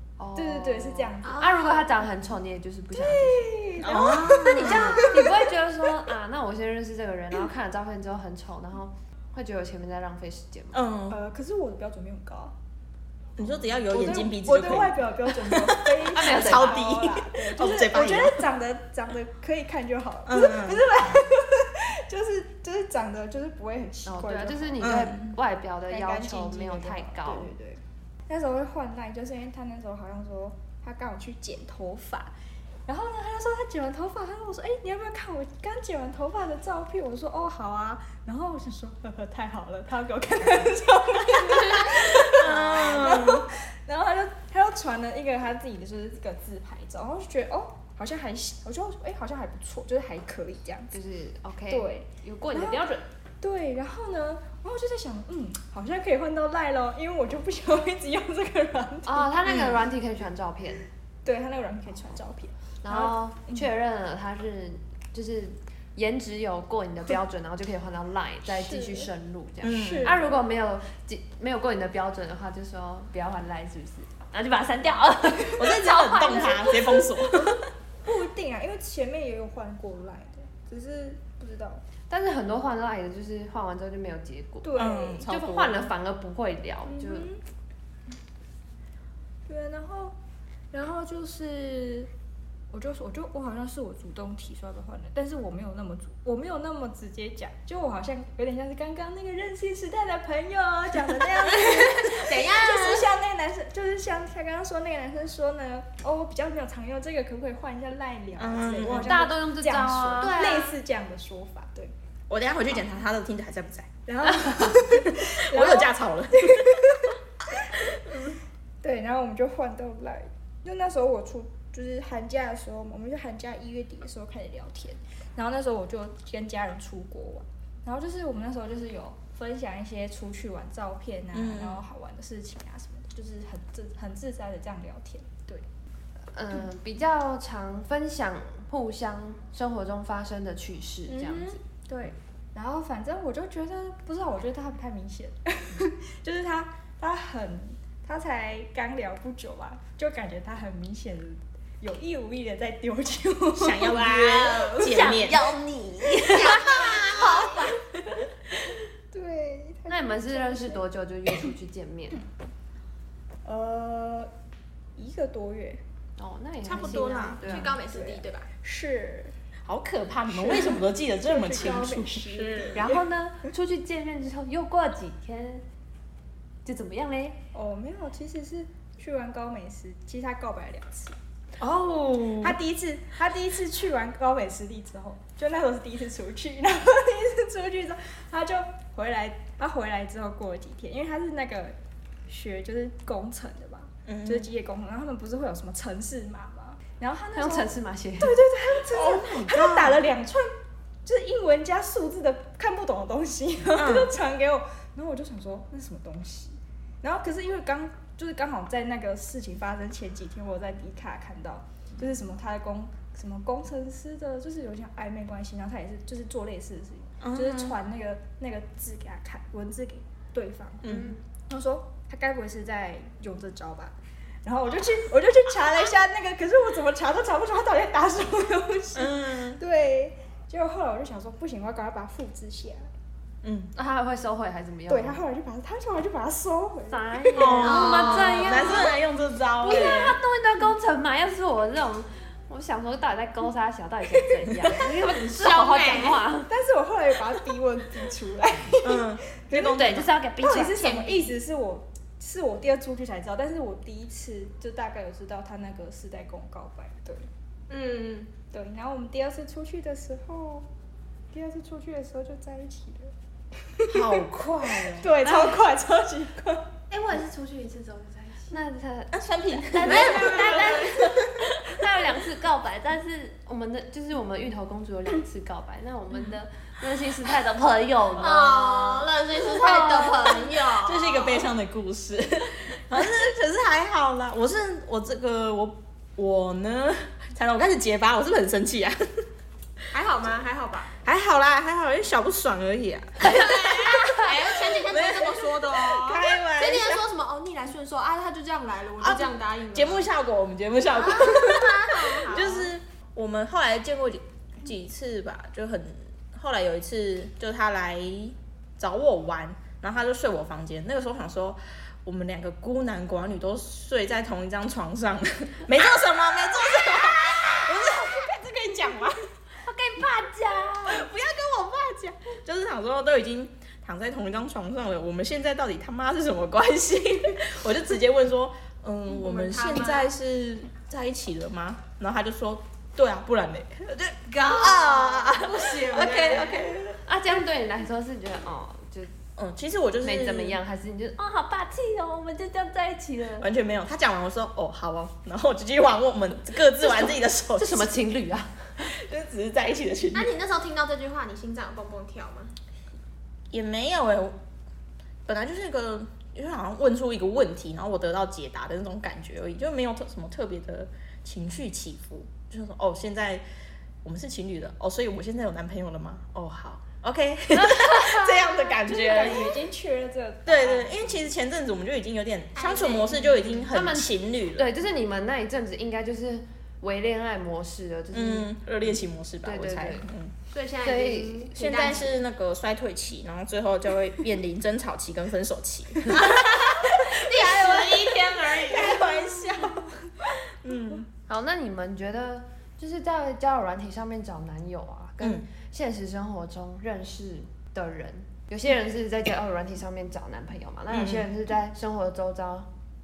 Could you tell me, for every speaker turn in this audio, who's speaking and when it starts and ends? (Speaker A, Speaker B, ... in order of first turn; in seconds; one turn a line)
Speaker A: 0.2-3.5
Speaker B: 0.3-1.5
Speaker C: 1.2-1.9
Speaker B: 2.9-5.5
Speaker D: 3.8-5.3
Speaker A: 4.0-10.8
Speaker D: 10.7-11.2
Speaker B: 11.1-12.6
Speaker D: 13.4-18.5
Speaker B: 13.9-24.9
Speaker A: 16.1-16.9
Speaker D: 20.3-20.9
Speaker A: 24.1-27.5
Speaker D: 24.8-25.4
Speaker B: 25.9-32.3
Speaker B: 32.9-50.9
Speaker C: 41.5-41.9
Speaker D: 41.5-43.5
Speaker A: 42.4-43.3
Speaker A: 50.9-53.1
Speaker B: 51.7-52.9
Speaker B: 53.4-59.3
Speaker A: 59.1-60.9
Speaker D: 59.5-59.8
Speaker B: 61.2-63.7
Speaker A: 62.8-77.2
Speaker B: 68.5-69.1
Speaker D: 69.6-70.2
Speaker B: 69.7-70.4
Speaker D: 75.6-77.6
Speaker B: 78.0-81.8
Speaker A: 82.1-87.3
Speaker B: 84.6-85.3
Speaker D: 84.7-85.9
Speaker B: 86.8-87.4
Speaker B: 89.5-90.2
Speaker B: 90.7-92.1
Speaker B: 92.7-111.9
Speaker C: 101.6-103.1
Speaker D: 108.4-109.2
Speaker A: 108.8-110.6
Speaker C: 110.2-110.8
Speaker D: 112.3-114.0
Speaker B: 114.1-117.2
Speaker D: 114.6-117.1
Speaker B: 117.7-135.7
Speaker D: 117.8-118.2
Speaker D: 131.3-131.8
Speaker A: 136.3-141.6
Speaker B: 141.1-154.1
Speaker D: 153.6-155.5
Speaker C: 153.9-157.8
Speaker A: 154.8-157.6
Speaker B: 159.1-160.8
Speaker A: 159.9-162.2
Speaker B: 163.4-164.3
Speaker B: 165.0-165.8
Speaker A: 166.2-167.8
Speaker D: 166.6-167.7
Speaker C: 166.8-168.5
Speaker B: 167.8-169.3
Speaker D: 169.7-172.8
Speaker B: 170.3-173.0
Speaker A: 172.8-175.7
Speaker A: 176.7-177.4
Speaker B: 177.5-181.2
Speaker D: 181.6-182.6
Speaker B: 182.4-191.8
Speaker B: 192.3-200.5
Speaker D: 194.1-194.5
Speaker A: 197.3-198.4
Speaker D: 198.9-200.0
Speaker B: 201.1-232.9
Speaker D: 203.7-204.1
Speaker D: 217.2-217.8
Speaker D: 220.8-221.2
Speaker D: 228.9-229.6
Speaker D: 233.4-233.7
Speaker A: 233.7-235.2
Speaker B: 234.9-237.7
Speaker A: 236.9-239.0
Speaker D: 237.3-240.2
Speaker C: 237.6-238.9
Speaker A: 239.6-246.5
Speaker C: 245.1-246.2
Speaker B: 246.5-257.3
Speaker D: 248.8-250.1
Speaker A: 249.6-250.8
Speaker C: 250.7-251.4
Speaker C: 257.7-258.3
Speaker B: 258.5-260.7
Speaker B: 261.3-263.1
Speaker B: 263.8-266.7
Speaker D: 263.9-265.2
Speaker A: 265.2-265.6
Speaker C: 266.9-268.6
Speaker A: 268.5-280.4
Speaker D: 269.1-271.5
Speaker C: 269.8-271.1
Speaker C: 278.2-281.5
Speaker D: 279.8-289.2
Speaker C: 289.9-290.9
Speaker D: 291.0-297.0
Speaker C: 293.3-300.1
Speaker D: 299.0-319.2
Speaker C: 300.9-302.7
Speaker A: 319.6-321.1
Speaker D: 320.9-337.0
Speaker C: 329.1-330.1
Speaker C: 334.3-336.8
Speaker A: 337.0-339.1
Speaker D: 339.4-340.6
Speaker A: 340.0-343.5
Speaker D: 343.4-348.1
Speaker A: 347.5-348.9
Speaker D: 348.8-350.3
Speaker C: 350.1-352.5
Speaker D: 353.5-354.4
Speaker D: 355.3-363.4
Speaker D: 364.0-369.6
Speaker A: 367.6-368.6
Speaker B: 368.8-371.3
Speaker D: 370.4-374.7
Speaker C: 372.6-373.7
Speaker A: 373.7-378.5
Speaker D: 378.1-380.3
Speaker A: 379.4-380.1
Speaker C: 380.5-382.1
Speaker A: 380.8-381.5
Speaker D: 381.6-391.1
Speaker C: 386.1-389.1
Speaker A: 391.3-402.7
Speaker D: 400.9-401.3